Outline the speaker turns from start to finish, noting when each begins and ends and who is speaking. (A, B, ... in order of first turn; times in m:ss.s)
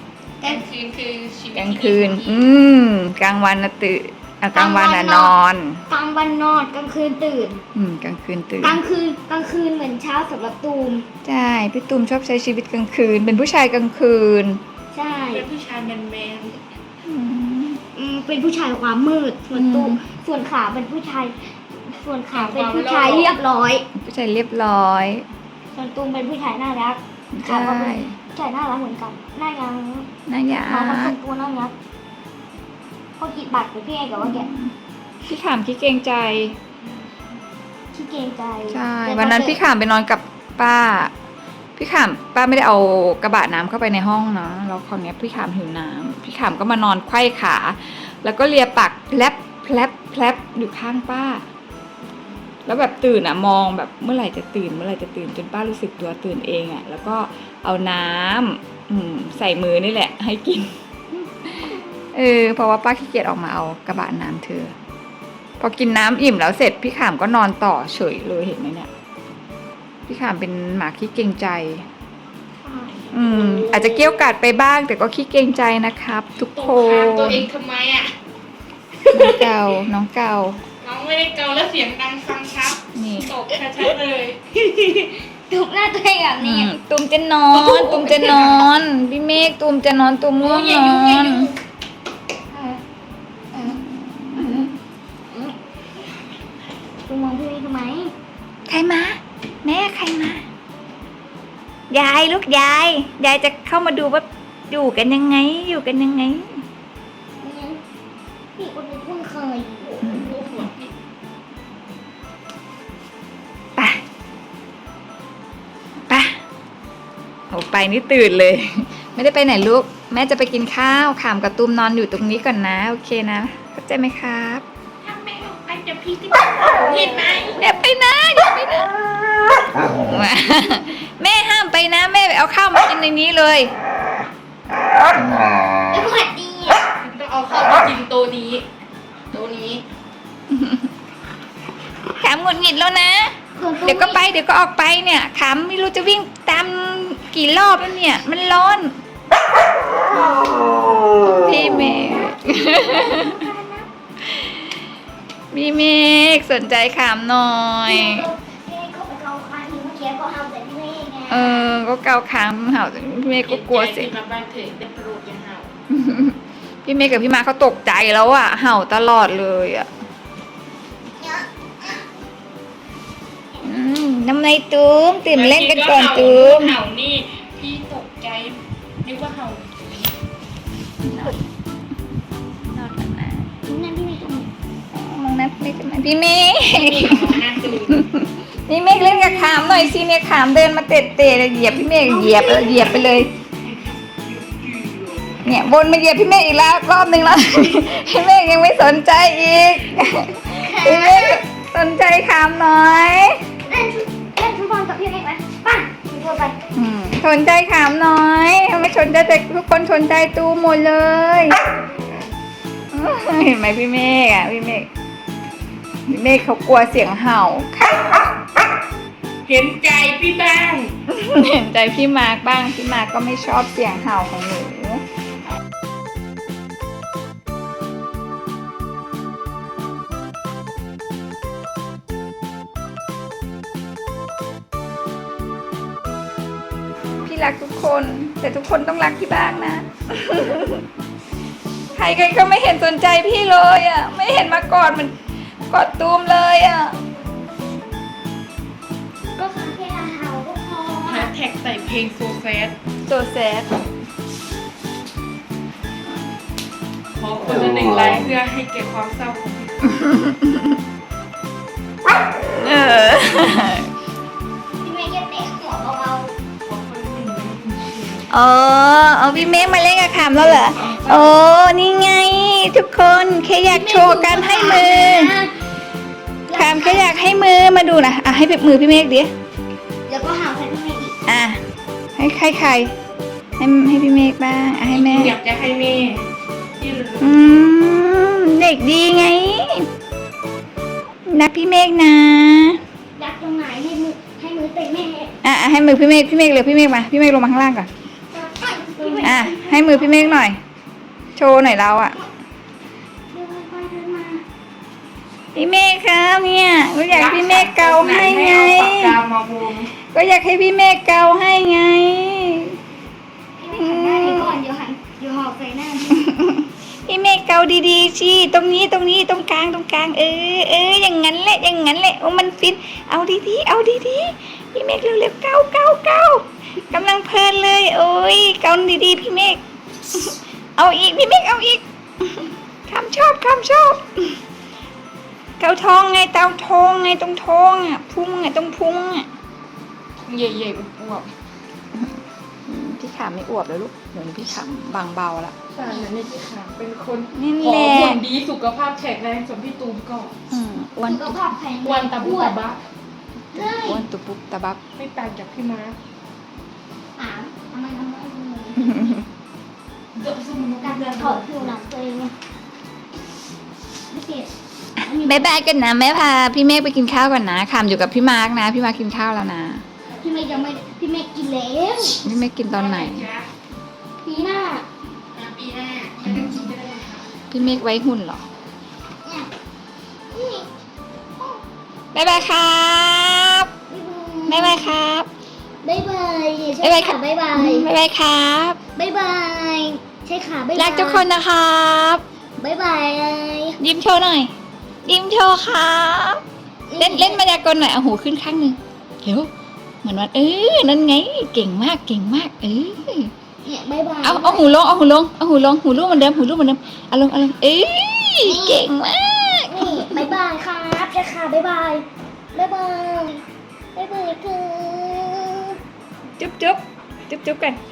0:00.4-0:00.7 A
0:00.4-0:02.5 B
0:01.5-0:05.8 C
0:04.5-0:05.3 A
0:05.9-0:07.6 A
0:07.8-0:08.8 C
0:08.6-0:11.1 A
0:11.2-0:14.6 C
0:14.9-0:15.5 A
0:15.3-0:16.6 B
0:17.0-0:17.8 C
0:18.0-0:23.9 A
0:19.5-0:20.0 C
0:22.3-0:23.4 B
0:24.0-0:25.2 C
0:25.7-0:30.1 A
0:27.3-0:28.2 C
0:30.3-0:31.2 C
0:30.6-0:31.8 A
0:33.2-0:34.5 A
0:34.2-0:34.7 C
0:35.2-0:36.6 C
0:37.9-0:39.6 A
0:38.7-0:41.1 C
0:41.8-0:51.4 C
0:52.7-1:00.7 C
1:01.4-1:04.7 C
1:05.6-1:08.9 C
1:10.1-1:11.9 C
1:12.8-1:14.1 B
1:13.1-1:17.5 C
1:16.5-1:18.1 B
1:19.0-1:19.6 B
1:19.1-1:20.6 C
1:20.8-1:24.4 B
1:23.0-1:23.3 C
1:24.5-1:26.7 A
1:26.4-1:31.5 C
1:27.5-1:28.7 B
1:30.4-1:31.5 B
1:32.5-1:32.8 A
1:33.5-1:33.8 A
1:33.6-1:34.7 C
1:34.4-1:34.7 A
1:35.3-1:35.6 A
1:37.1-1:38.1 A
1:38.7-1:40.4 C
1:41.9-1:46.6 C
1:47.4-1:47.8 A
1:48.6-1:50.0 A
1:49.8-1:50.9 B
1:50.0-1:50.4 C
1:53.8-1:54.0 C
1:56.1-1:56.4 C
1:57.5-2:04.6 C
2:05.0-2:07.6 B
2:07.5-2:13.7 C
2:15.9-2:16.8 A
2:16.9-2:18.6 B
2:19.3-2:19.8 B
2:20.5-2:20.9 C
2:22.2-2:29.0 C
2:23.6-2:24.2 A
2:30.0-2:33.9 A
2:31.3-2:33.4 C
2:34.2-2:34.6 C
2:35.5-2:38.3 C
2:37.9-2:41.8 A
2:41.3-2:44.1 C
2:43.4-2:45.7 B
2:45.9-2:49.9 C
2:53.6-2:56.8 C
2:55.3-3:00.1 B
3:01.0-3:01.4 C
3:02.7-3:03.6 C
3:03.6-3:04.5 A
3:04.9-3:13.3 C
3:06.6-3:08.1 B
3:09.0-3:09.7 A
3:11.9-3:13.3 A
3:14.1-3:15.4 B
3:15.4-3:23.4 C
3:20.5-3:21.4 A
3:23.6-3:26.6 A
3:26.8-3:31.6 C
3:32.9-3:34.9 C
3:36.1-3:38.4 C
3:39.5-3:40.9 B
3:41.1-3:45.0 C
3:57.2-4:00.9 C
4:02.0-4:05.2 C
4:05.7-4:07.0 C
4:09.3-4:11.3 A
4:11.0-4:12.8 B
4:13.1-4:13.8 C
4:17.1-4:20.0 B
4:20.0-4:20.8 C
4:22.5-4:23.9 C
4:24.8-4:26.3 A
4:26.6-4:28.3 B
4:28.3-4:35.3 C
4:29.6-4:31.4 B
4:33.6-4:35.5 A
4:36.5-4:37.4 A
4:36.5-4:39.3 C
4:40.1-4:41.2 A
4:41.2-4:41.6 C
4:42.2-4:42.9 C
4:43.6-4:45.4 C
4:44.9-4:46.2 B
4:46.8-4:47.4 B
4:47.2-4:49.9 C
4:51.3-4:52.8 C
4:53.2-4:55.4 A
4:55.4-4:57.9 C
4:58.3-5:00.4 A
4:59.2-5:00.6 C
5:01.4-5:02.2 C
5:03.3-5:04.4 A
5:05.5-5:09.2 C
5:07.1-5:09.9 B
5:10.0-5:12.8 C
5:13.6-5:16.3 A
5:13.8-5:14.5 C
5:16.1-5:34.4 C
5:35.6-5:39.3 C
5:40.3-5:41.3 B
5:42.6-5:45.6 C
5:45.7-5:50.3 B
5:47.3-5:48.2 C
5:50.5-5:51.4 C
5:51.0-5:52.6 A
5:51.8-5:52.8 B
5:53.5-5:54.1 A
5:53.5-5:54.8 C
5:55.0-5:56.0 B
5:57.2-5:59.2 A
5:58.8-5:59.2 C
6:00.1-6:01.8 B
6:00.8-6:02.3 A
6:04.1-6:05.5 A
6:05.2-6:09.8 C
6:10.2-6:12.2 A
6:12.2-6:13.3 C
6:12.7-6:13.5 B
6:14.2-6:14.9 A
6:15.3-6:17.3 B
6:17.5-6:18.4 C
6:19.2-6:19.5 A
6:20.3-6:20.7 A
6:22.1-6:23.7 C
6:23.9-6:25.0 A
6:24.5-6:25.3 C
6:25.8-6:27.9 A
6:26.8-6:28.8 C
6:29.0-6:31.3 A
6:30.8-6:32.2 C
6:32.6-6:33.8 A
6:33.8-6:34.5 C
6:35.0-6:36.4 C
6:36.9-6:37.4 A
6:37.0-6:39.5 C
6:40.0-6:43.3 C
6:43.6-6:44.7 A
6:44.2-6:50.2 C
6:48.4-6:48.9 A
6:49.7-6:53.4 A
6:54.0-6:55.8 A
6:56.4-6:57.8 C